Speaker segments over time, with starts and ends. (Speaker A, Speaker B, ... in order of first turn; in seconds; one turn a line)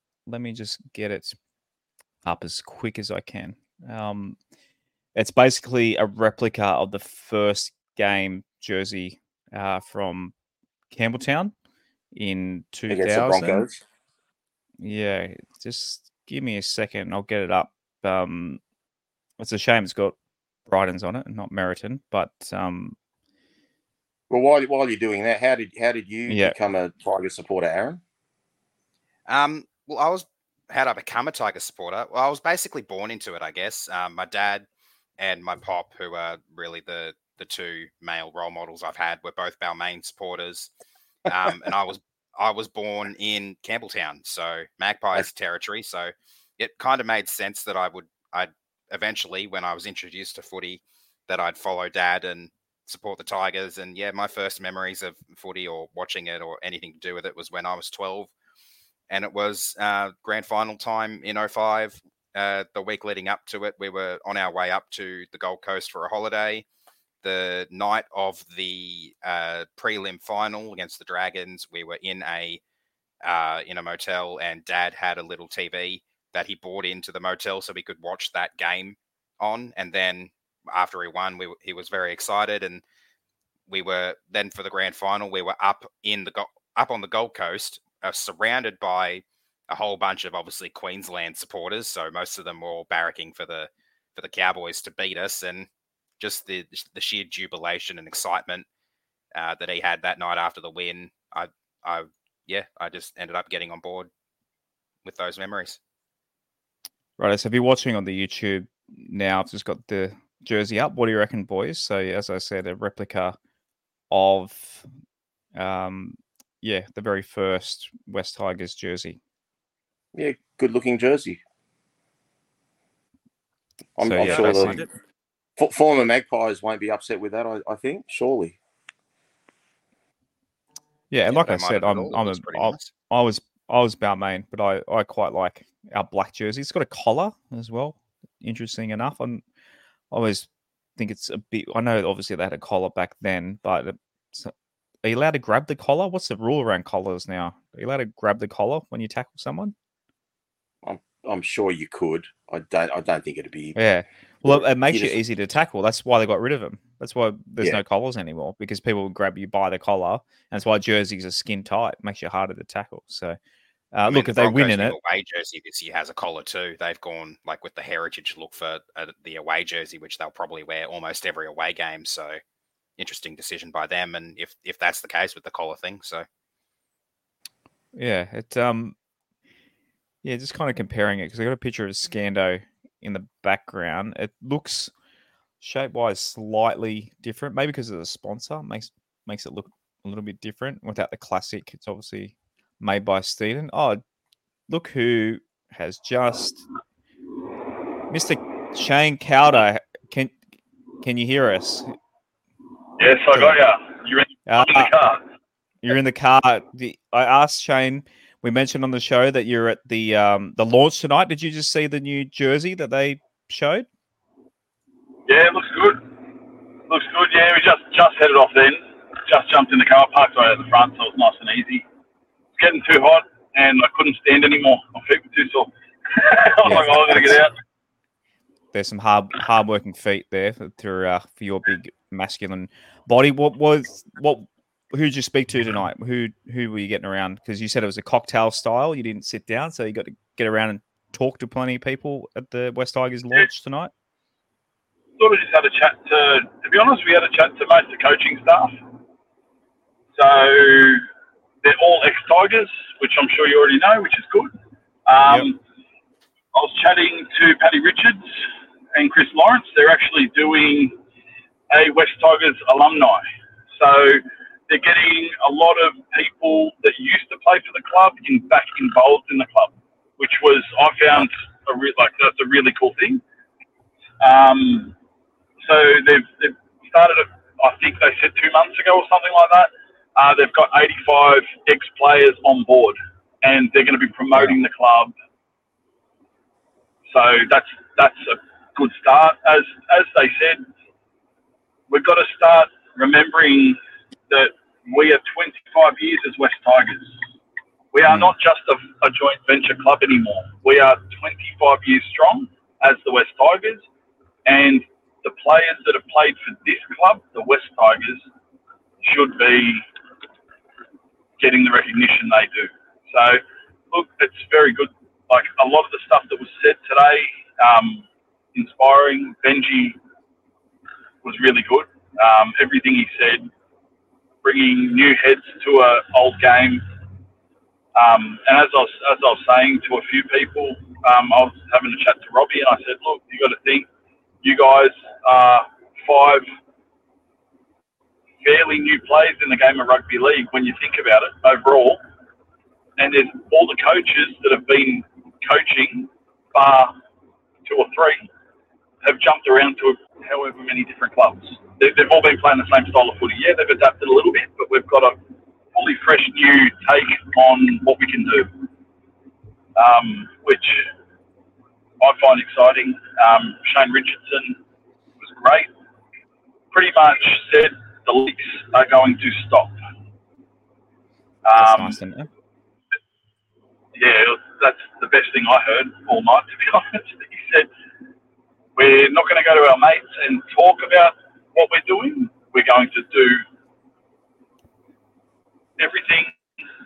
Speaker A: 0.3-1.4
Speaker A: 2.2-4.4
Speaker A: 5.2-10.3
Speaker A: 10.9-11.5
Speaker A: 12.1-13.7
Speaker B: 12.9-13.8
Speaker A: 14.8-18.6
Speaker A: 19.4-20.2
Speaker A: 20.7-23.0
Speaker B: 24.3-28.0
Speaker A: 26.3-26.6
Speaker C: 29.3-34.6
Speaker C: 35.2-40.7
Speaker C: 41.3-58.3
Speaker C: 59.1-66.7
Speaker C: 67.2-72.6
Speaker C: 73.2-82.8
Speaker C: 83.7-95.7
Speaker C: 96.2-98.7
Speaker C: 99.3-104.1
Speaker C: 105.0-105.8
Speaker A: 107.2-113.4
Speaker A: 114.1-114.9
Speaker A: 115.5-119.2
Speaker B: 120.1-121.4
Speaker B: 124.0-124.8
Speaker A: 124.0-124.9
Speaker C: 124.5-124.7
Speaker B: 125.6-128.6
Speaker A: 131.1-139.4
Speaker C: 131.3-132.9
Speaker A: 140.1-144.5
Speaker A: 145.0-149.8
Speaker B: 150.8-153.8
Speaker A: 153.8-163.4
Speaker B: 154.4-155.2
Speaker A: 163.9-165.0
Speaker C: 164.1-172.4
Speaker C: 173.0-176.2
Speaker A: 177.9-178.9
Speaker A: 180.2-184.9
Speaker A: 185.6-194.0
Speaker A: 194.7-196.6
Speaker A: 198.1-200.3
Speaker A: 201.0-201.9
Speaker D: 203.0-205.2
Speaker A: 203.3-203.6
Speaker A: 204.5-204.9
Speaker A: 205.8-213.9
Speaker D: 215.3-216.2
Speaker D: 216.9-221.8
Speaker D: 222.6-227.5
Speaker A: 226.6-227.4
Speaker A: 228.7-243.9
Speaker D: 245.2-248.7
Speaker D: 250.2-251.0
Speaker D: 251.6-254.6
Speaker D: 255.1-255.6
Speaker D: 256.5-260.9
Speaker D: 261.7-273.2
Speaker D: 274.2-274.9
Speaker D: 275.6-285.1
Speaker D: 287.1-290.6
Speaker D: 291.9-297.2
Speaker D: 297.9-303.9
Speaker A: 298.1-298.3
Speaker D: 304.4-308.2
Speaker D: 309.0-309.8
Speaker D: 311.4-320.0
Speaker D: 321.2-323.5
Speaker D: 324.4-326.9
Speaker D: 327.9-333.9
Speaker D: 334.4-336.5
Speaker D: 338.4-342.0
Speaker D: 343.0-346.9
Speaker D: 347.6-348.3
Speaker D: 349.0-355.2
Speaker D: 355.7-358.6
Speaker D: 359.8-360.9
Speaker D: 362.0-364.6
Speaker D: 365.2-365.7
Speaker D: 366.7-369.9
Speaker D: 371.4-372.0
Speaker A: 371.6-372.3
Speaker D: 373.9-377.7
Speaker D: 378.8-383.4
Speaker D: 385.8-386.4